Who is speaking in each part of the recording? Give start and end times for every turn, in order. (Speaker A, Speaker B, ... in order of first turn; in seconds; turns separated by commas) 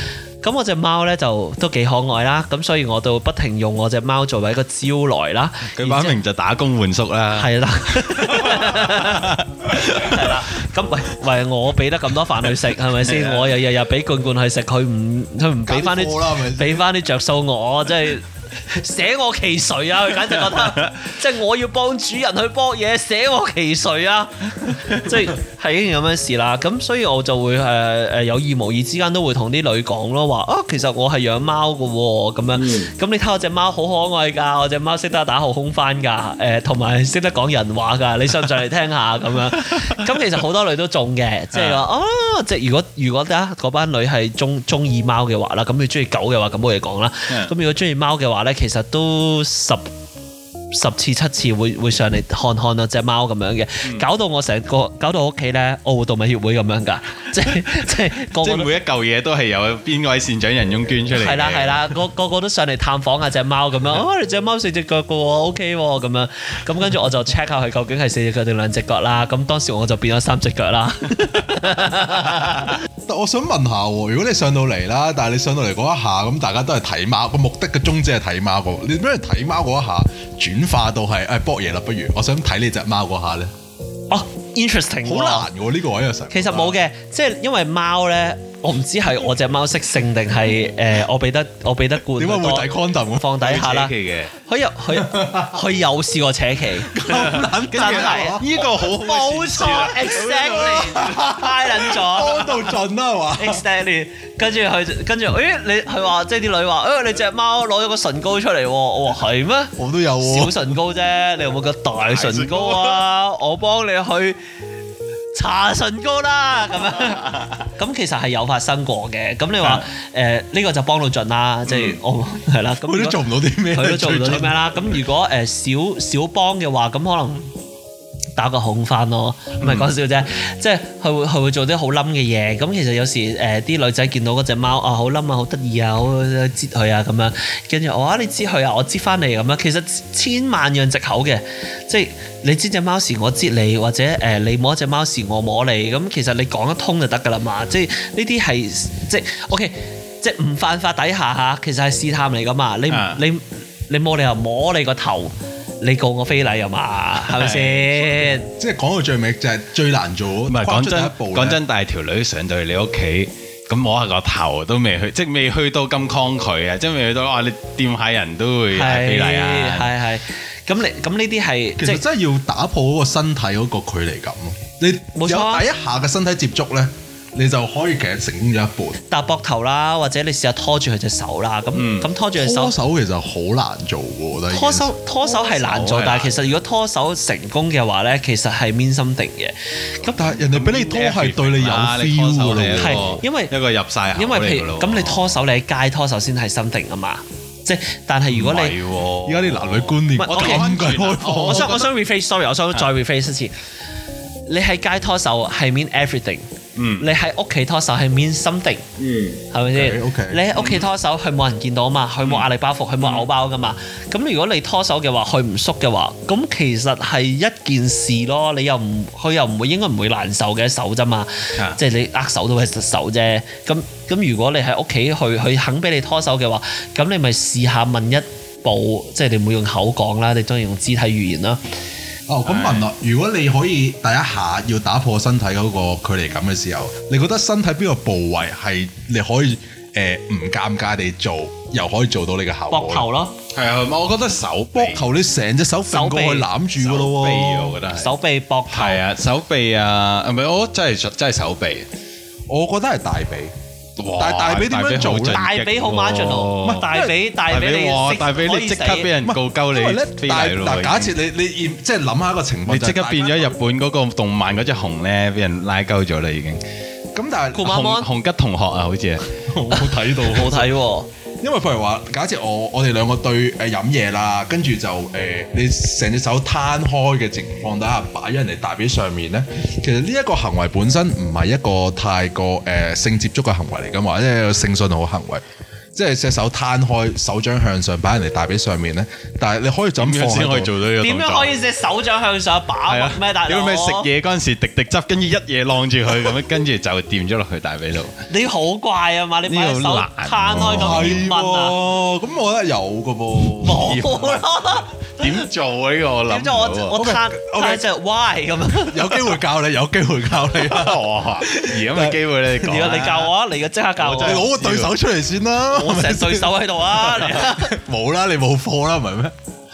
Speaker A: 0.4-6.2, Speaker B: 5.8-10.2, Speaker A: 7.3-49.8, Speaker B: 13.1-13.5, Speaker C: 15.7-16.8, Speaker B: 41.5-41.8, Speaker A: 50.7-58.7, Speaker B: 58.3-61.9, Speaker A: 61.1-72.8, Speaker C: 73.1-83.5, Speaker A: 84.1-85.5, Speaker C: 85.0-86.8, Speaker A: 86.3-97.0, Speaker C: 92.2-93.3, Speaker B: 93.4-94.3, Speaker C: 94.9-95.5, Speaker C: 96.8-98.7, Speaker B: 97.0-100.3, Speaker A: 97.7-102.7, Speaker C: 99.7-103.6, Speaker A: 103.3-114.4, Speaker C: 109.8-110.6, Speaker B: 112.1-113.0, Speaker A: 115.3-127.5, Speaker B: 121.7-122.0, Speaker C: 122.8-124.6, Speaker A: 128.4-158.5, Speaker B: 129.6-129.9, Speaker B: 152.9-153.2, Speaker B: 157.2-158.2, Speaker C: 158.6-161.6, Speaker B: 160.5-169.9, Speaker A: 168.7-172.1, Speaker C: 171.8-179.0, Speaker A: 175.2-175.7, Speaker A: 179.1-182.8, Speaker B: 181.8-182.1, Speaker C: 182.3-184.9, Speaker A: 184.5-190.4, Speaker B: 185.4-186.4, Speaker C: 190.1-193.2, Speaker B: 190.4-195.3, Speaker A: 192.8-193.5, Speaker A: 194.1-198.8, Speaker B: 198.3-201.9, Speaker C: 199.2-201.8, Speaker A: 200.2-200.7, Speaker A: 201.4-203.5, Speaker A: 204.5-206.4, Speaker B: 206.8-207.1, Speaker A: 207.0-208.9, Speaker B: 209.0-209.4, Speaker A: 209.5-231.6, Speaker C: 209.7-210.5, Speaker B: 210.5-210.9, Speaker B: 213.0-213.3, Speaker C: 232.3-243.1, Speaker B: 232.5-232.9, Speaker A: 242.7-243.3, Speaker B: 243.5-245.1, Speaker C: 244.7-247.8, Speaker A: 245.9-246.5, Speaker B: 246.8-248.1, Speaker A: 247.9-249.0, Speaker B: 248.7-251.9, Speaker C: 252.5-253.5, Speaker B: 254.0-256.9, Speaker C: 254.2-255.5, Speaker A: 255.3-259.1, Speaker C: 256.6-257.1, Speaker B: 257.5-261.1, Speaker C: 259.2-263.5, Speaker B: 262.7-266.6, Speaker C: 267.1-267.7, Speaker A: 267.6-268.1, Speaker B: 267.6-269.3, Speaker C: 269.5-270.7, Speaker A: 269.7-271.1, Speaker C: 271.4-285.4, Speaker C: 285.9-290.7, Speaker B: 290.0-291.5, Speaker A: 291.0-294.1, Speaker B: 292.9-298.1, Speaker A: 298.3-301.8, Speaker B: 299.5-301.2, Speaker C: 300.6-304.1, Speaker A: 303.6-305.4, Speaker B: 303.7-304.4, Speaker B: 305.2-307.0, Speaker A: 306.2-309.3, Speaker C: 306.9-307.8, Speaker C: 308.9-312.2, Speaker B: 310.6-313.3, Speaker A: 312.6-314.5, Speaker B: 314.0-314.9, Speaker C: 314.1-319.3, Speaker A: 315.7-317.8